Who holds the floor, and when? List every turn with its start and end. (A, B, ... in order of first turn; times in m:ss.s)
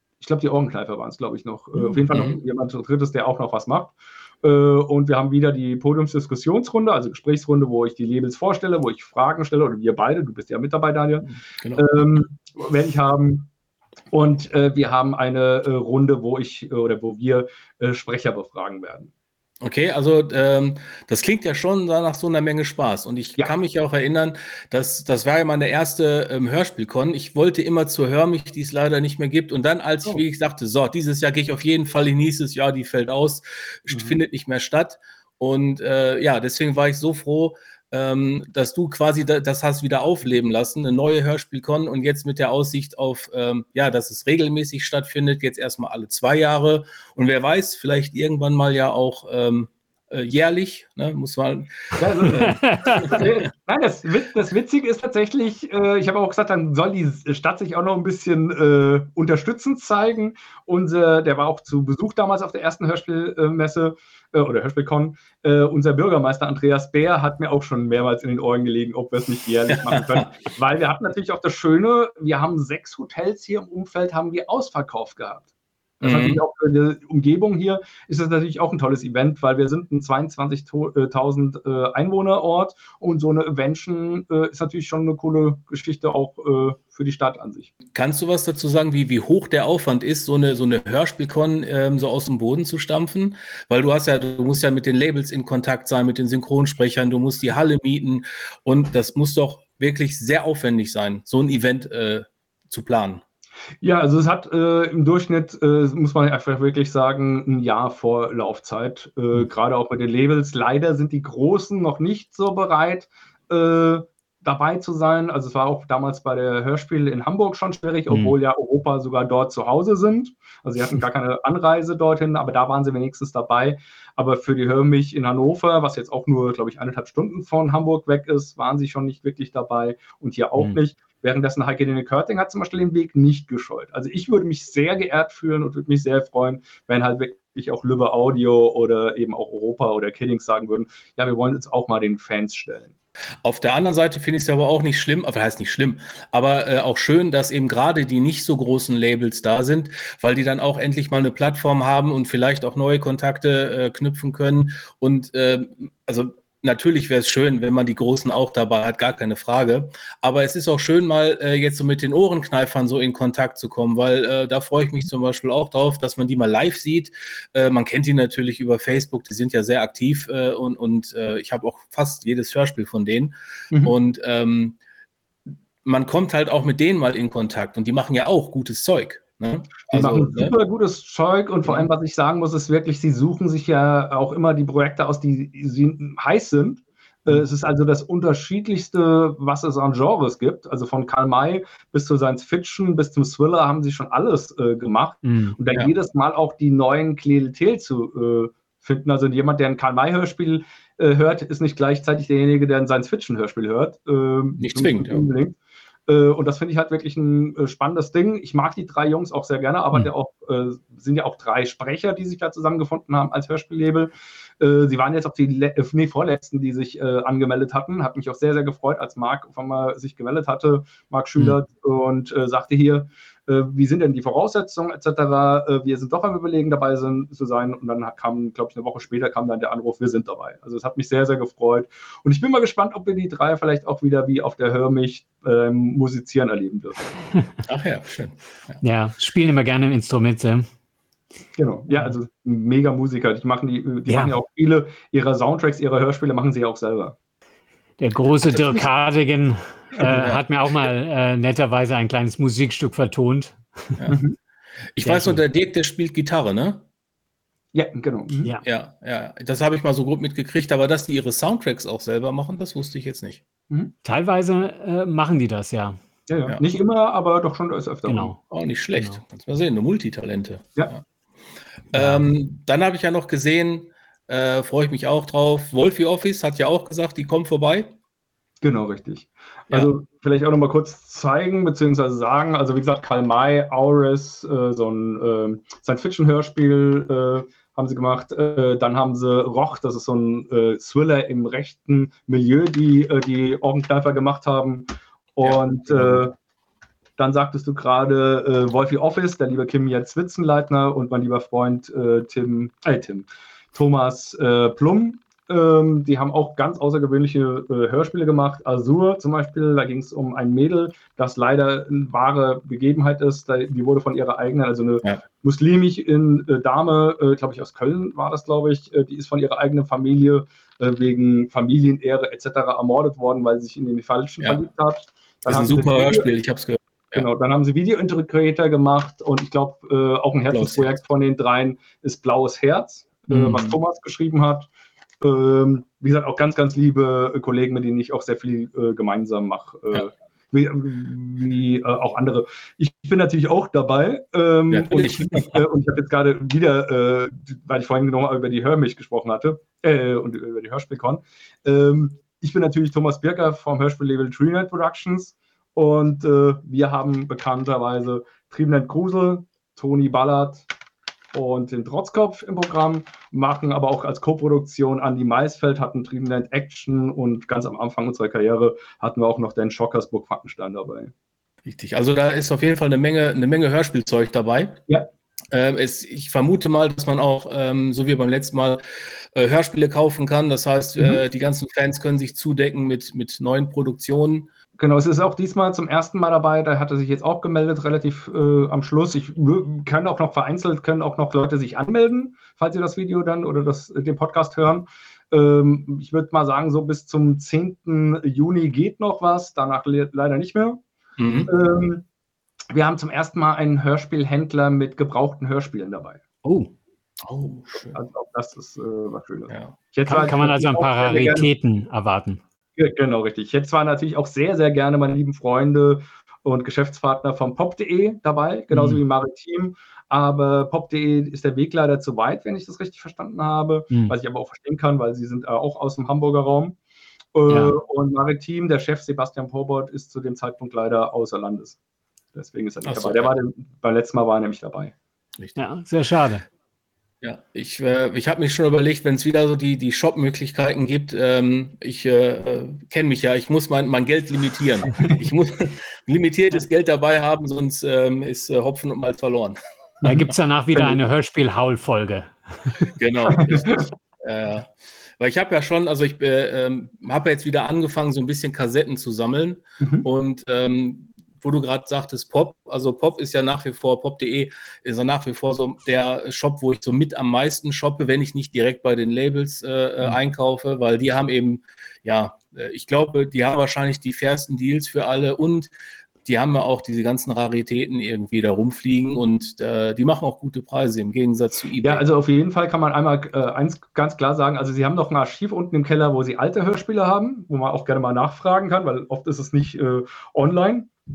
0:00.2-0:13.5 A
0:01.8-0:02.4 B
0:11.6-0:11.9 B
0:14.1-0:19.1 A
0:19.6-0:53.3 B
0:33.9-0:34.2 A
0:52.0-1:15.5 A
0:52.3-0:53.1 C
1:09.7-1:10.3 B
1:16.0-1:27.7 A
1:16.0-1:16.4 B
1:27.9-1:43.2 B
1:43.8-2:22.9 A
1:58.1-1:58.3 C
2:23.4-2:54.8 B
2:55.8-3:00.6 B
2:59.9-3:25.6 A
3:15.2-3:15.6 C
3:24.6-3:25.3 B
3:26.1-3:57.2 A
3:57.6-3:58.8 B
3:58.8-4:00.7 C
4:01.6-4:07.1 A
4:04.1-4:04.3 C
4:08.0-4:14.0 C
4:10.0-4:10.4 B
4:14.1-4:14.4 A
4:14.9-4:16.8 B
4:15.0-4:15.4 C
4:17.7-4:18.5 A
4:18.6-4:23.4 B
4:24.0-4:26.0 C
4:26.3-4:28.3 A
4:28.0-4:28.4 C
4:28.5-4:31.0 B
4:31.9-4:37.9 B
4:31.9-4:32.2 C
4:38.6-4:56.3 A
4:55.4-4:56.2 B
4:57.2-5:26.3 A
5:25.4-5:27.3 B
5:27.1-5:34.7 A
5:30.5-5:31.0 B
5:33.3-5:33.8 B
5:35.2-6:00.7 A
5:44.7-5:45.6 B
6:01.3-6:11.1 A
6:11.6-6:14.8 B
6:15.5-6:18.8 B
6:19.3-6:24.5 B
6:24.8-6:40.8 A
6:41.2-6:41.5 B
6:41.5-6:42.0 A
6:42.7-6:46.2 A
6:46.4-6:46.7 C
6:47.2-6:48.0 B
6:47.9-6:51.5 A
6:49.5-6:49.7 B
6:50.0-6:52.4 C
6:52.8-7:06.8 A
6:58.7-6:59.0 C
7:07.3-7:11.8 A
7:07.5-7:07.7 C
7:12.3-7:14.9 A
7:12.8-7:13.3 B
7:15.6-7:16.4 C
7:17.2-7:29.6 B
7:30.0-7:31.0 A
7:30.0-7:32.7 C
7:33.0-7:55.7 B
7:33.3-7:33.9 A
7:39.8-7:40.0 A
7:56.2-8:02.0 B
8:01.8-8:10.9 A